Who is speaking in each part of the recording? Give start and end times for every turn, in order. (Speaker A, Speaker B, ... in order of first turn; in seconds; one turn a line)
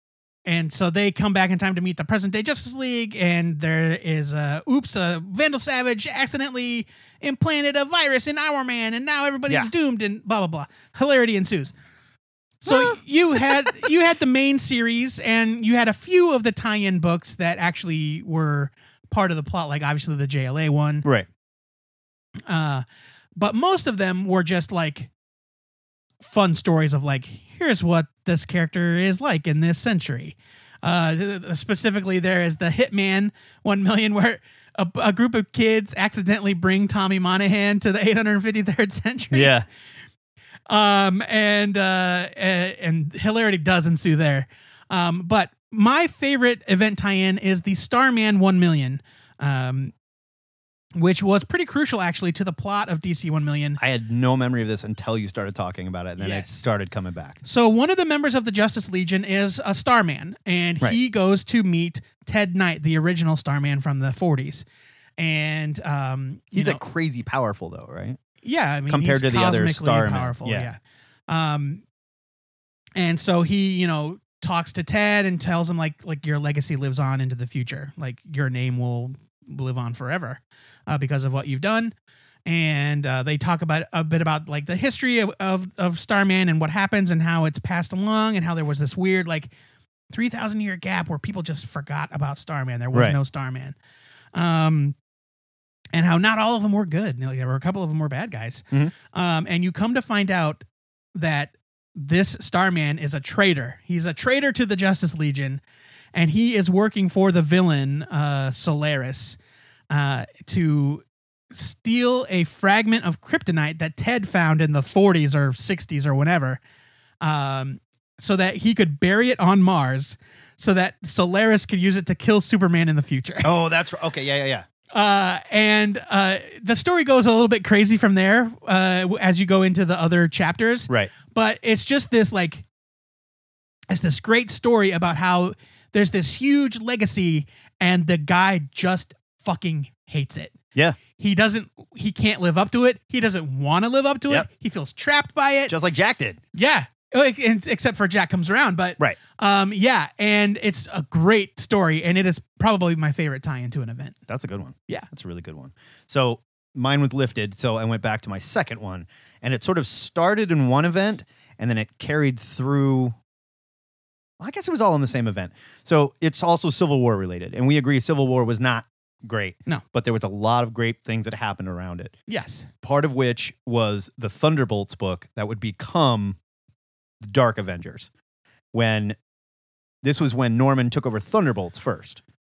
Speaker A: 0.5-11.7
Speaker B: 12.6-13.9
Speaker A: 12.6-21.1
Speaker A: 22.5-22.8
Speaker A: 23.4-25.1
Speaker A: 26.2-39.5
Speaker B: 39.3-39.7
Speaker A: 40.7-49.9
Speaker A: 51.0-53.8
Speaker B: 53.8-57.4
Speaker A: 56.2-56.6
Speaker A: 57.4-64.7
Speaker A: 65.2-66.8
Speaker B: 66.5-68.2
Speaker A: 68.4-71.8
Speaker B: 68.9-70.7
Speaker A: 73.0-81.9
Speaker A: 82.5-89.5
Speaker A: 90.1-93.8
Speaker B: 92.9-93.2
Speaker A: 94.3-95.0
Speaker A: 95.9-100.6
Speaker A: 101.2-105.6
Speaker A: 106.1-109.4
Speaker A: 109.9-116.6
Speaker A: 117.2-123.5
Speaker B: 123.4-124.7
Speaker A: 124.9-132.7
Speaker B: 130.9-131.1
Speaker A: 133.9-140.5
Speaker A: 141.2-145.7
Speaker B: 145.7-146.4
Speaker A: 146.5-154.2
Speaker B: 154.3-163.2
Speaker B: 164.4-172.2
Speaker A: 172.3-172.7
Speaker B: 172.8-176.4
Speaker B: 177.2-178.1
Speaker B: 178.7-179.2
Speaker B: 180.0-182.2